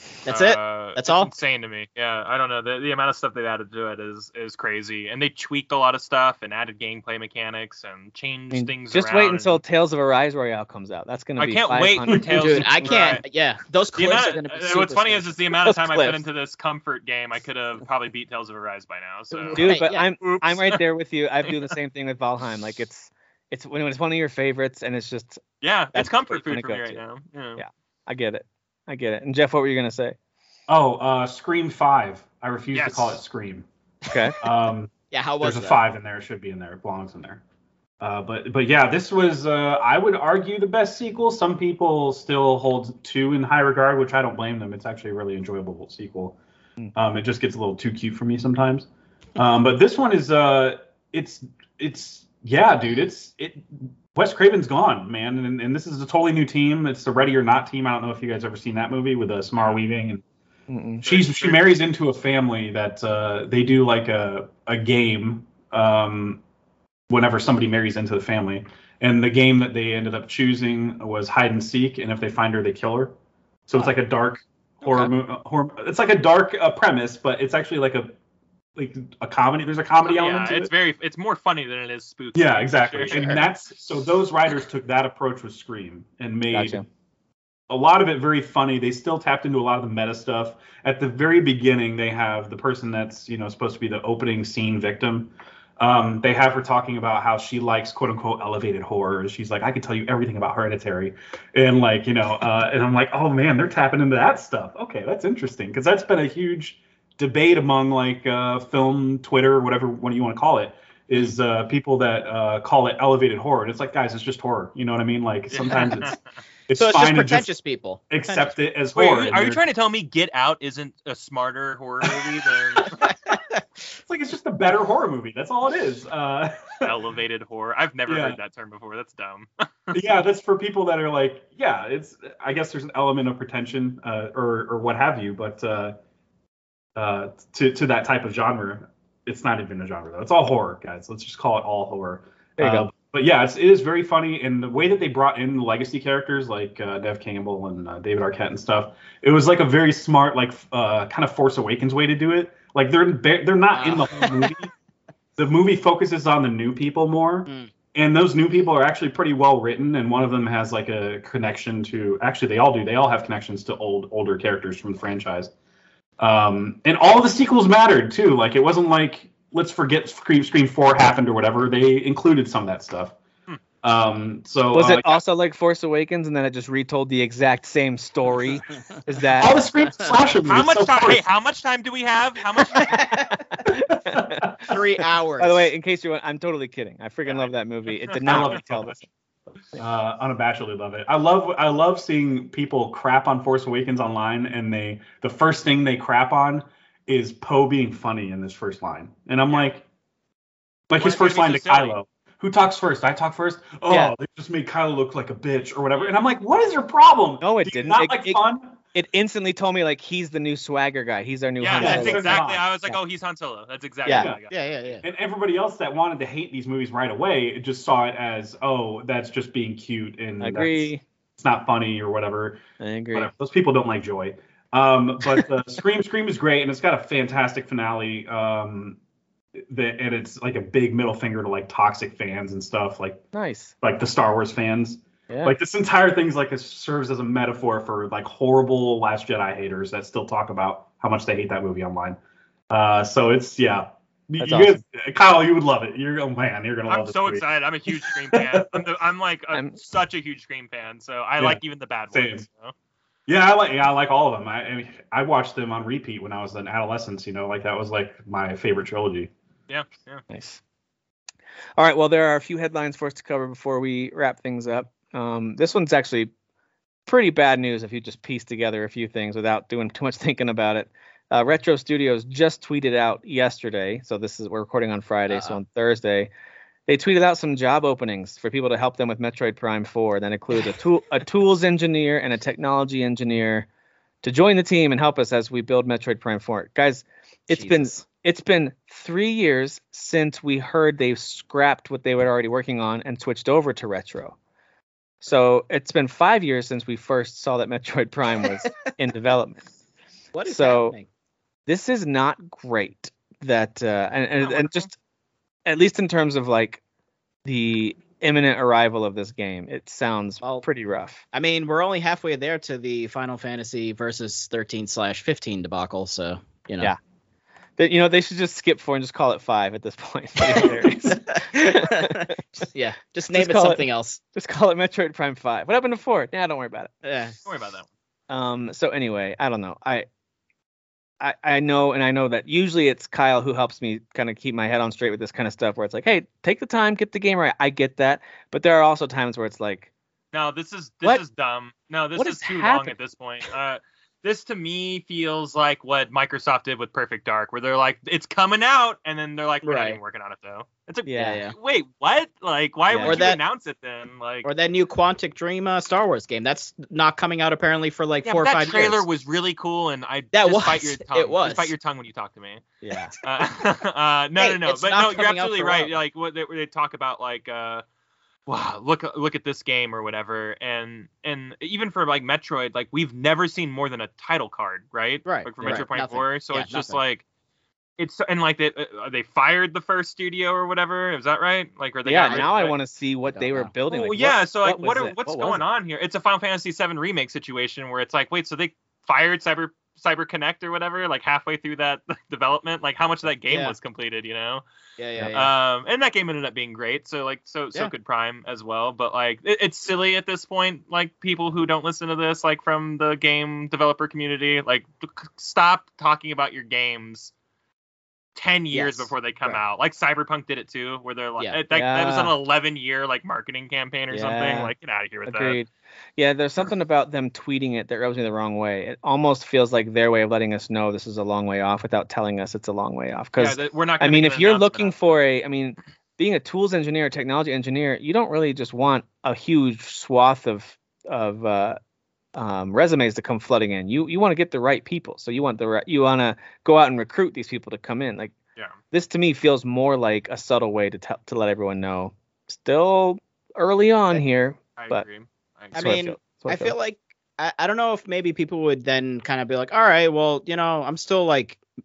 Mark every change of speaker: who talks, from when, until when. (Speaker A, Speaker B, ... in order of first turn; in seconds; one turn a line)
Speaker A: 0.2-1.3
Speaker B: 0.2-9.6
Speaker C: 8.5-12.9
Speaker B: 11.4-13.2
Speaker A: 12.3-15.4
Speaker B: 14.0-20.8
Speaker C: 15.6-16.2
Speaker A: 19.3-20.1
Speaker C: 19.5-25.4
Speaker B: 21.5-21.7
Speaker B: 25.6-27.6
Speaker C: 25.9-27.0
Speaker C: 27.6-30.1
Speaker D: 30.7-33.6
Speaker B: 32.7-33.2
Speaker C: 34.1-34.4
Speaker D: 34.4-37.4
Speaker A: 35.1-35.8
Speaker D: 38.0-46.4
Speaker D: 46.9-60.2
Speaker C: 60.7-61.0
Speaker D: 61.0-66.4
Speaker B: 61.0-61.8
Speaker D: 67.1-73.1
Speaker D: 73.7-78.1
Speaker D: 78.8-80.7
Speaker B: 80.0-83.4
Speaker D: 82.3-86.8
Speaker A: 83.0-83.4
Speaker C: 86.5-86.8
Speaker D: 87.7-116.2
Speaker B: 115.5-116.2
Speaker D: 116.7-117.5
Speaker A: 116.7-118.5
Speaker D: 118.1-119.6
Speaker B: 118.9-123.1
Speaker A: 123.0-123.4
Speaker D: 123.9-126.9
Speaker B: 126.8-130.0
Speaker D: 128.1-128.4
Speaker D: 129.9-136.0
Speaker D: 136.9-154.7
Speaker C: 142.6-142.9
Speaker A: 153.7-154.6
Speaker D: 155.4-165.5
Speaker D: 166.2-173.2
Speaker D: 173.8-175.2
Speaker C: 174.7-179.6
Speaker D: 179.4-181.2
Speaker B: 180.4-183.0
Speaker A: 182.6-183.7
Speaker C: 183.5-184.4
Speaker D: 183.9-184.7
Speaker A: 184.6-185.7
Speaker C: 185.4-189.1
Speaker B: 187.3-188.6
Speaker D: 188.2-189.0
Speaker D: 189.8-199.8
Speaker D: 200.9-208.8
Speaker B: 201.0-201.9
Speaker C: 203.9-204.1
Speaker B: 205.9-206.2
Speaker C: 207.4-208.4
Speaker C: 208.9-213.0
Speaker B: 211.6-214.6
Speaker D: 211.7-212.6
Speaker A: 211.8-212.2
Speaker D: 214.1-214.4
Speaker A: 214.5-215.0
Speaker D: 215.0-222.6
Speaker C: 220.4-221.0
Speaker C: 222.8-223.3
Speaker D: 223.1-229.0
Speaker D: 229.6-233.2
Speaker C: 233.3-233.7
Speaker D: 233.8-242.2
Speaker C: 235.3-235.5
Speaker D: 242.7-248.8
Speaker C: 244.4-244.8
Speaker B: 246.9-252.7
Speaker D: 252.1-252.4
Speaker D: 253.3-259.3
Speaker B: 259.7-260.2
Speaker C: 260.3-260.6
Speaker C: 261.8-266.3
Speaker C: 267.1-276.3
Speaker A: 275.3-275.6
Speaker C: 276.9-283.7
Speaker C: 284.2-294.3
Speaker A: 287.5-288.0
Speaker C: 295.2-299.7
Speaker A: 300.3-301.1
Speaker C: 300.4-300.9
Speaker C: 301.7-304.9
Speaker B: 304.4-304.9
Speaker C: 305.6-306.8
Speaker C: 307.4-311.2
Speaker A: 311.3-316.9
Speaker C: 317.8-322.4
Speaker A: 320.5-324.2
Speaker C: 323.3-326.9
Speaker A: 327.0-327.4
Speaker B: 327.4-327.9
Speaker C: 328.3-330.1
Speaker C: 331.2-339.9
Speaker B: 340.3-354.5
Speaker C: 342.1-342.9
Speaker A: 349.6-350.0
Speaker C: 351.1-351.4
Speaker A: 351.2-351.6
Speaker C: 352.9-353.2
Speaker A: 353.0-353.4
Speaker A: 354.4-359.0
Speaker B: 358.2-362.6
Speaker A: 360.3-361.7
Speaker C: 362.8-363.1
Speaker B: 363.2-367.8
Speaker A: 364.4-365.9
Speaker B: 368.5-377.2
Speaker A: 375.2-377.0
Speaker B: 378.0-382.8
Speaker C: 382.0-385.6
Speaker A: 382.2-382.5
Speaker A: 383.3-383.7
Speaker B: 383.9-394.6
Speaker A: 393.5-393.7
Speaker A: 395.0-395.5
Speaker B: 395.3-407.3
Speaker B: 408.4-415.6
Speaker A: 408.7-409.6
Speaker C: 411.7-412.3
Speaker C: 414.1-414.7
Speaker C: 415.2-431.8
Speaker B: 423.4-425.2
Speaker C: 432.3-438.3
Speaker C: 438.9-445.0
Speaker B: 444.8-445.9
Speaker C: 445.7-446.7
Speaker A: 445.7-451.6